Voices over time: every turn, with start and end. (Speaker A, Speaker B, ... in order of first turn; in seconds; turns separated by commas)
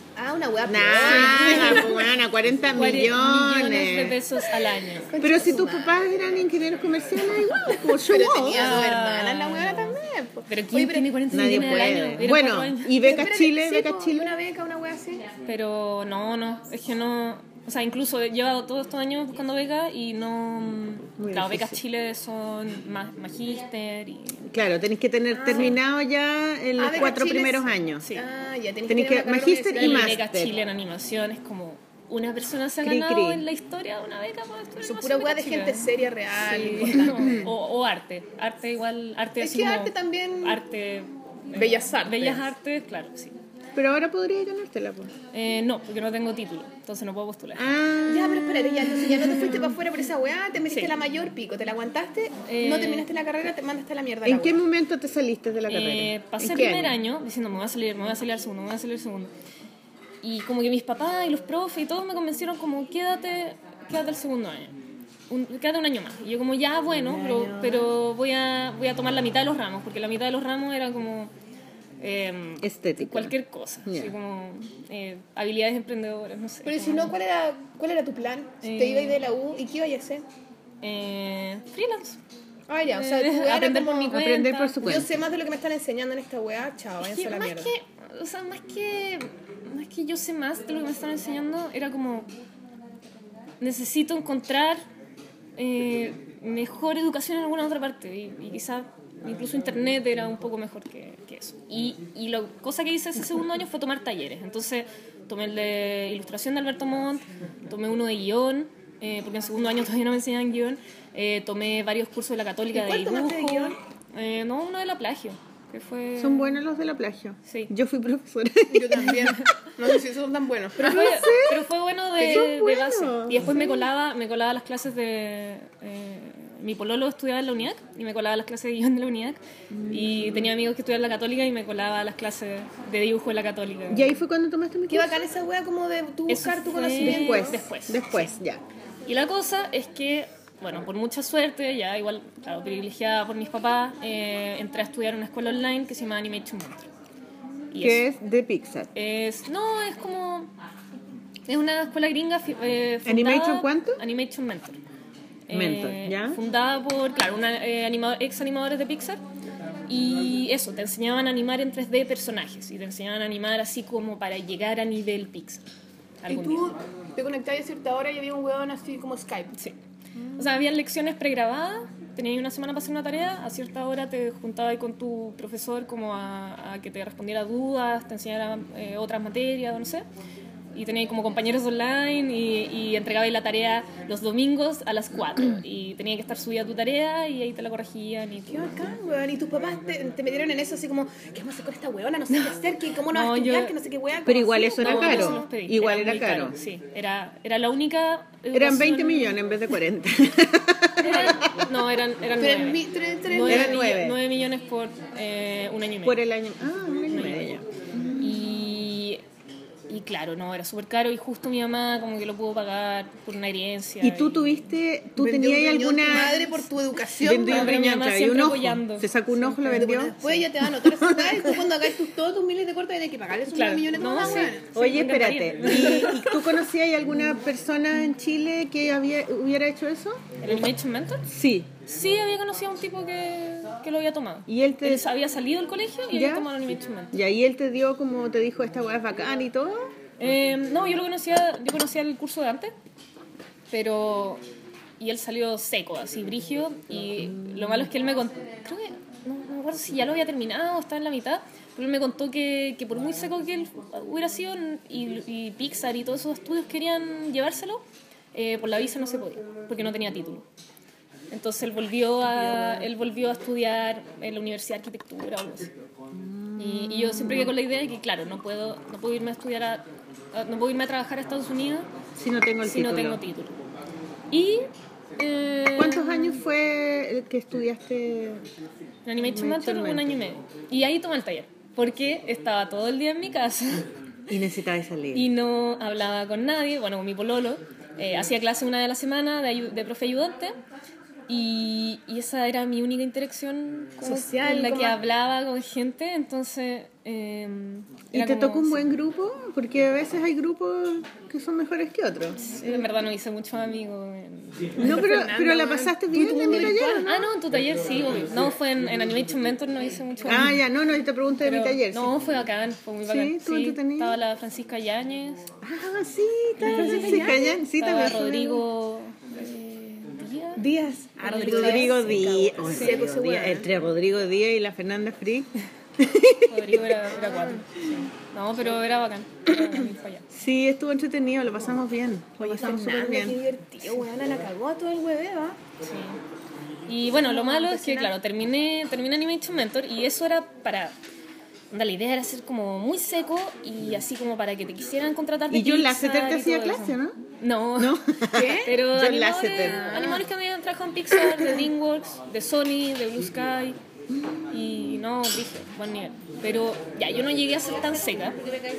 Speaker A: 0.1-2.1, Speaker B: 0.6-4.2, Speaker C: 1.0-1.9, Speaker C: 2.7-5.1, Speaker A: 5.1-6.0, Speaker B: 5.2-8.8, Speaker A: 7.7-12.0, Speaker C: 8.5-9.9, Speaker C: 10.5-12.9, Speaker B: 11.3-14.3, Speaker A: 13.0-15.2, Speaker C: 15.4-24.5, Speaker B: 21.2-21.8, Speaker B: 24.5-28.1, Speaker A: 25.3-25.8, Speaker A: 26.8-30.2, Speaker B: 28.9-30.6, Speaker C: 29.7-35.9, Speaker B: 32.8-33.5, Speaker A: 34.8-37.5, Speaker C: 36.4-43.4, Speaker B: 37.1-37.5, Speaker A: 39.4-40.6, Speaker A: 41.5-42.5, Speaker B: 43.7-45.1, Speaker C: 45.3-47.6, Speaker B: 47.5-49.7, Speaker A: 48.0-54.6, Speaker C: 50.7-50.9, Speaker C: 52.5-53.1, Speaker B: 54.2-57.0, Speaker C: 55.7-59.3, Speaker C: 60.2-64.7, Speaker C: 65.3-71.3, Speaker B: 67.0-67.8, Speaker C: 72.0-77.1, Speaker B: 72.6-74.1, Speaker A: 76.6-80.2, Speaker C: 78.6-79.2, Speaker C: 80.8-82.2, Speaker A: 82.7-84.3, Speaker C: 82.9-84.8, Speaker B: 84.1-85.1, Speaker A: 84.8-87.7, Speaker C: 87.0-92.3, Speaker C: 93.6-94.8, Speaker C: 95.5-116.6, Speaker A: 112.7-113.8, Speaker B: 116.2-119.3, Speaker C: 117.5-117.7, Speaker A: 118.7-121.2, Speaker C: 120.8-134.1, Speaker B: 120.8-123.9, Speaker B: 129.7-130.6, Speaker B: 133.9-135.2, Speaker A: 134.9-137.7, Speaker C: 136.3-138.3, Speaker B: 137.0-138.6, Speaker C: 139.1-146.9, Speaker C: 147.7-148.0, Speaker B: 147.8-148.9, Speaker C: 148.9-150.5, Speaker C: 151.5-154.8, Speaker B: 153.0-154.0, Speaker C: 155.5-159.2, Speaker B: 155.5-156.4, Speaker C: 159.9-165.6, Speaker C: 166.2-166.7, Speaker A: 166.3-169.5, Speaker C: 170.3-180.1, Speaker C: 180.7-188.9, Speaker A: 188.5-195.4, Speaker C: 192.3-193.7, Speaker B: 194.2-196.6, Speaker C: 194.8-199.3, Speaker B: 198.5-201.3, Speaker C: 201.0-206.2, Speaker A: 202.4-203.9, Speaker B: 203.4-204.2, Speaker B: 206.0-208.4, Speaker C: 207.1-207.6, Speaker C: 208.2-209.2, Speaker C: 209.9-214.5, Speaker B: 214.0-216.4, Speaker A: 215.2-217.8, Speaker C: 216.2-216.5, Speaker B: 217.2-221.7, Speaker C: 217.4-220.3, Speaker A: 219.7-224.7, Speaker C: 223.5-226.2, Speaker B: 224.7-230.3, Speaker A: 225.7-226.2, Speaker C: 230.4-231.2, Speaker B: 231.3-231.7, Speaker C: 231.8-237.2, Speaker B: 234.5-235.1, Speaker B: 236.1-236.5, Speaker B: 237.1-239.9, Speaker C: 240.2-242.7, Speaker C: 243.7-244.4, Speaker C: 245.0-260.4, Speaker B: 247.3-247.8, Speaker C: 261.3-265.7, Speaker B: 266.1-267.5, Speaker C: 266.6-271.9, Speaker B: 272.1-273.2, Speaker C: 272.6-273.6, Speaker C: 274.3-276.4, Speaker B: 275.7-278.4, Speaker C: 279.1-283.9, Speaker B: 279.2-280.1, Speaker B: 284.3-285.3, Speaker C: 285.1-290.6, Speaker C: 291.3-298.8, Speaker A: 294.0-295.0, Speaker B: 298.1-302.9, Speaker C: 302.4-305.0, Speaker B: 304.8-307.3, Speaker A: 304.8-307.1, Speaker C: 307.0-310.6, Speaker B: 310.2-312.1, Speaker C: 311.4-315.5, Speaker B: 313.0-314.2, Speaker B: 315.6-318.6, Speaker C: 316.6-320.6, Speaker A: 316.6-317.6, Speaker A: 320.6-323.6, Speaker C: 321.2-323.0, Speaker B: 321.4-327.2, Speaker C: 326.5-330.3, Speaker B: 330.3-333.4, Speaker A: 332.4-335.6, Speaker C: 335.8-336.2, Speaker C: 336.9-340.9, Speaker A: 337.1-338.1, Speaker C: 341.7-348.0, Speaker B: 345.5-347.2, Speaker B: 347.8-350.0, Speaker A: 348.3-348.7, Speaker C: 348.6-353.8, Speaker A: 349.6-350.2, Speaker B: 354.1-354.4, Speaker C: 354.5-358.4